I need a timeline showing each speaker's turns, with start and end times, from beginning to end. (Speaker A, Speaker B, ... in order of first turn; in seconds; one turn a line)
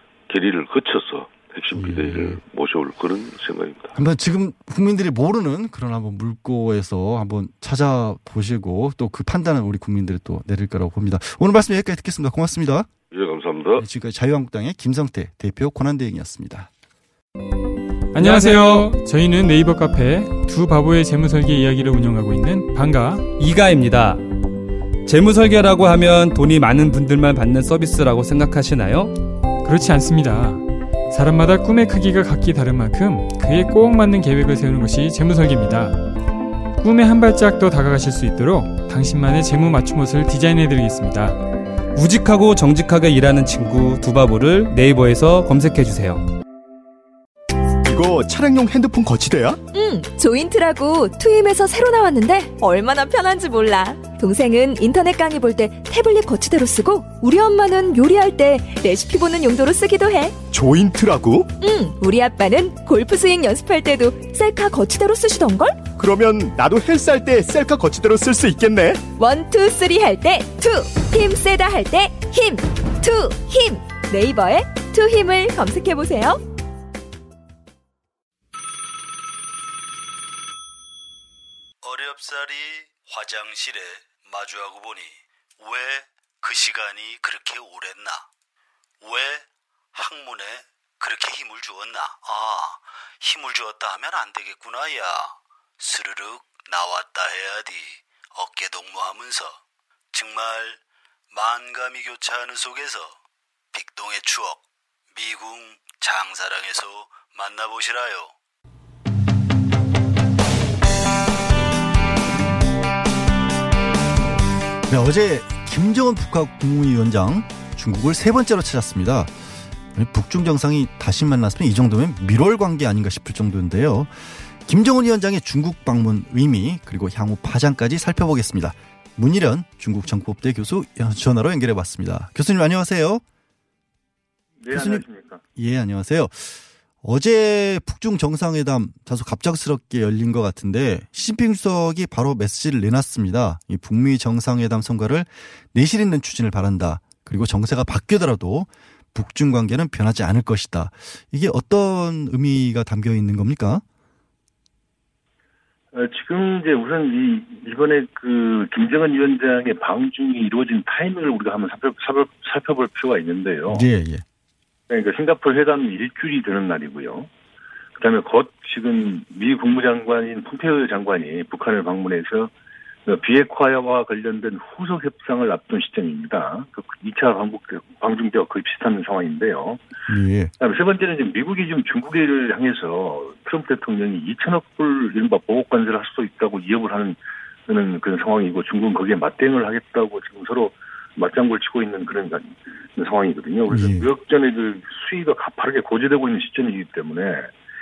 Speaker A: 0.3-3.9
Speaker B: 1.7-2.4
Speaker B: 3.9-12.9
Speaker A: 13.1-13.8
Speaker B: 13.8-16.7
Speaker C: 18.1-18.9
Speaker D: 18.1-23.3
Speaker C: 23.3-24.2
Speaker C: 25.1-29.1
Speaker D: 29.6-36.0
Speaker D: 36.8-41.4
Speaker C: 41.9-46.2
Speaker E: 47.8-49.6
Speaker F: 49.7-60.3
Speaker E: 60.5-61.5
Speaker F: 61.6-65.8
Speaker E: 66.0-69.0
Speaker F: 69.2-76.4
Speaker G: 81.8-88.3
Speaker G: 89.0-99.6
Speaker G: 100.1-100.8
Speaker G: 101.3-103.2
Speaker G: 103.7-108.3
Speaker B: 114.9-119.3
Speaker B: 119.9-133.2
Speaker H: 134.6-135.4
Speaker B: 134.7-153.8
Speaker H: 155.9-163.9
Speaker B: 163.7-164.2
Speaker H: 164.9-167.3
Speaker H: 167.9-172.5
Speaker H: 173.1-179.8
Speaker B: 180.1-180.5
Speaker H: 180.6-197.5
Speaker B: 193.7-194.1